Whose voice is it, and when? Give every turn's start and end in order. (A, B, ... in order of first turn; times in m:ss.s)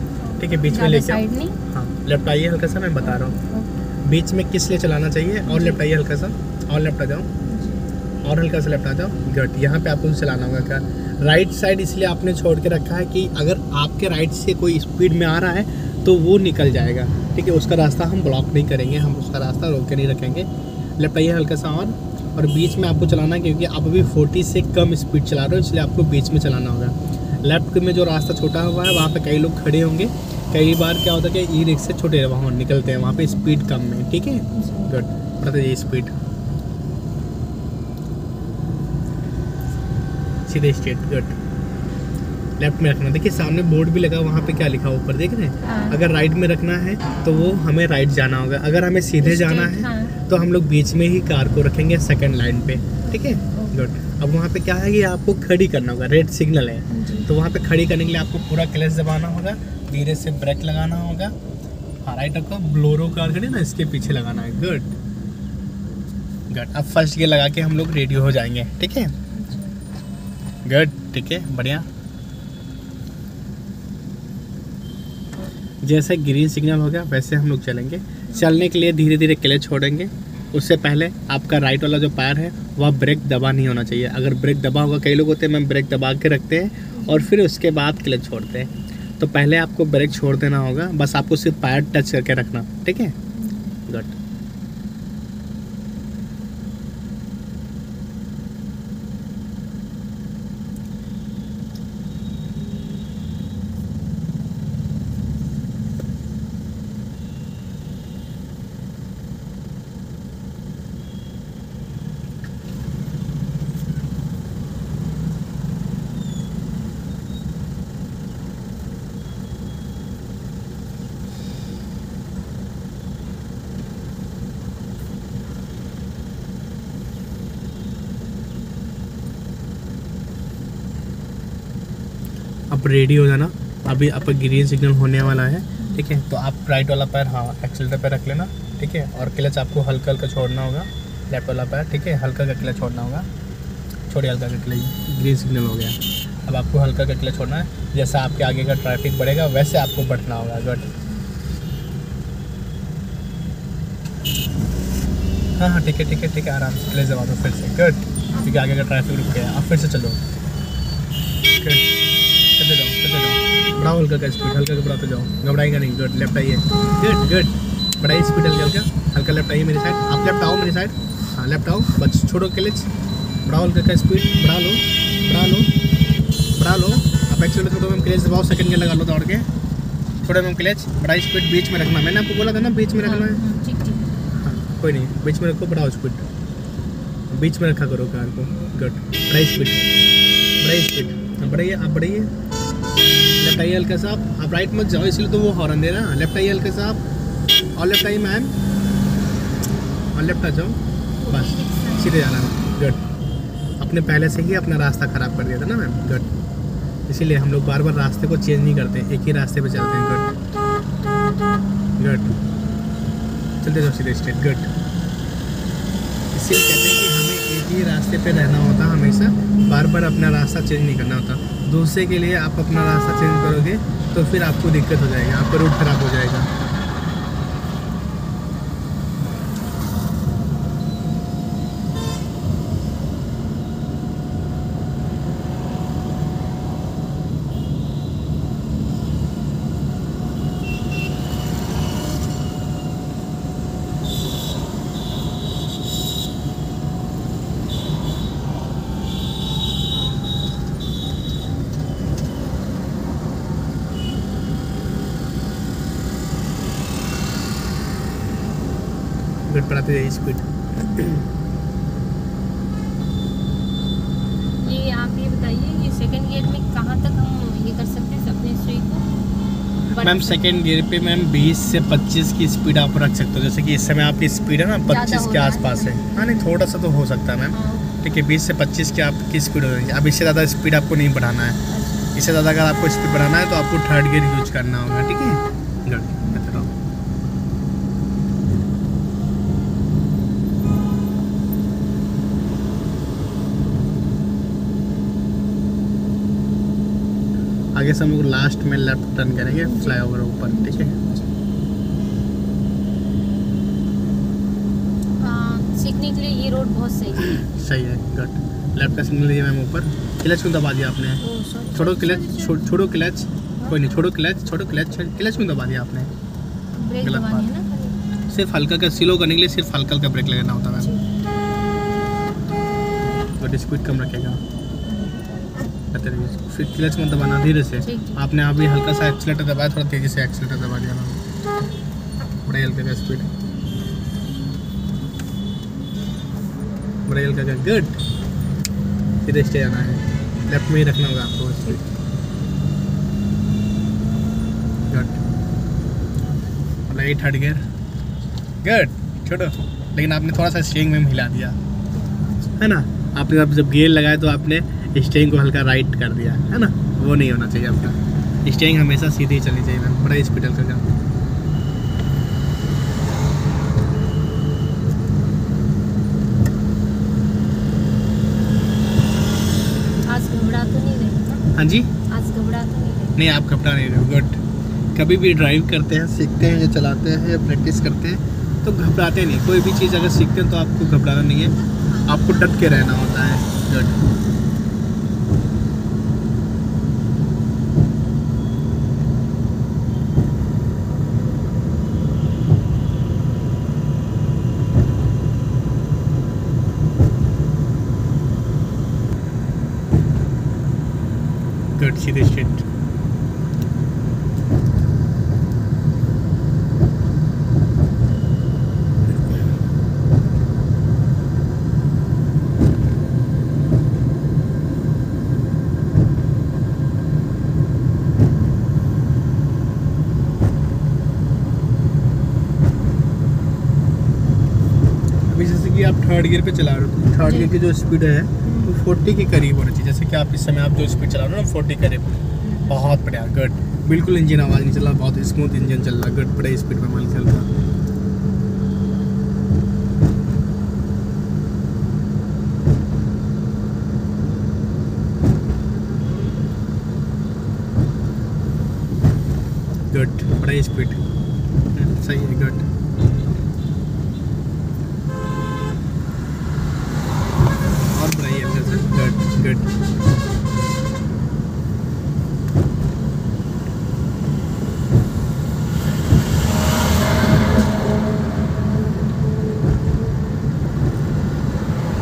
0:00.4-0:01.6 A
0:00.4-0:03.4 B
0:03.0-0:03.7 A
0:04.0-0:07.3 B
0:05.5-0:05.8 A
0:07.4-0:07.8 A
0:08.2-0:36.1 B
0:34.5-0:34.9 A
0:40.5-0:41.4 B
0:42.6-1:01.3 B
0:45.6-0:46.0 A
0:49.2-0:50.1 A
0:53.1-0:53.8 A
0:56.9-0:57.3 A
1:02.0-1:04.9 B
1:06.5-1:09.1 B
1:09.3-1:09.9 A
1:10.6-1:11.9 B
1:15.8-1:33.1 B
1:18.3-1:18.6 A
1:26.9-1:27.3 A
1:33.3-1:33.8 A
1:33.9-1:34.1 B
2:12.7-2:23.3 B
2:15.8-2:16.0 A
2:24.1-2:30.9 B
2:35.6-2:40.2 B
2:38.3-2:38.7 A
2:41.6-2:41.9 B
2:42.6-2:52.9 B
2:53.4-2:55.7 B
2:56.6-2:59.5 B
3:00.2-3:03.4 B
3:03.0-3:04.1 A
3:04.3-3:06.2 B
3:07.3-3:09.8 B
3:10.6-3:12.3 B
3:13.4-3:17.0 B
3:17.8-3:18.5 B
3:20.1-3:23.0 B
3:21.2-3:22.3 A
3:23.8-3:26.3 B
3:27.1-3:30.3 B
3:32.0-3:32.3 B
3:33.6-3:34.7 B
3:36.3-3:46.5 B
4:19.5-4:21.2 B
4:20.8-4:21.1 A
4:24.6-4:29.0 A
4:29.9-4:30.4 A
4:30.0-4:41.6 B
4:34.9-4:36.5 A
4:37.5-4:38.0 A
4:41.7-4:42.1 A
4:42.1-4:46.7 B
4:46.2-4:46.6 A
4:57.7-5:00.9 B
4:59.5-5:01.3 A
5:05.2-5:07.4 A
5:07.2-5:11.2 B
5:11.2-5:12.7 A
5:11.7-5:16.1 B
5:16.7-5:18.0 A
5:17.0-5:17.5 B
5:18.3-5:20.9 B
5:23.4-5:24.4 B
5:24.8-5:25.2 A
5:25.9-5:31.2 B
5:27.8-5:28.2 A
5:32.4-5:33.3 B
5:37.1-5:38.0 B
5:39.2-5:41.8 B
5:44.9-5:45.2 B
5:46.9-5:47.6 B
5:48.6-5:51.6 B
5:51.9-5:52.6 A
5:52.6-6:00.8 B
6:10.1-6:11.4 A
6:11.5-6:11.9 B
6:12.1-6:13.2 A
6:13.2-6:14.4 B
6:15.0-6:21.5 B
6:22.0-6:24.0 B
6:41.8-6:42.6 B
7:05.3-7:17.6 B
7:07.2-7:07.5 A
7:08.4-7:08.7 A
7:12.4-7:12.8 A
7:29.9-7:31.0 B
7:31.7-7:32.6 B
7:37.9-7:39.7 B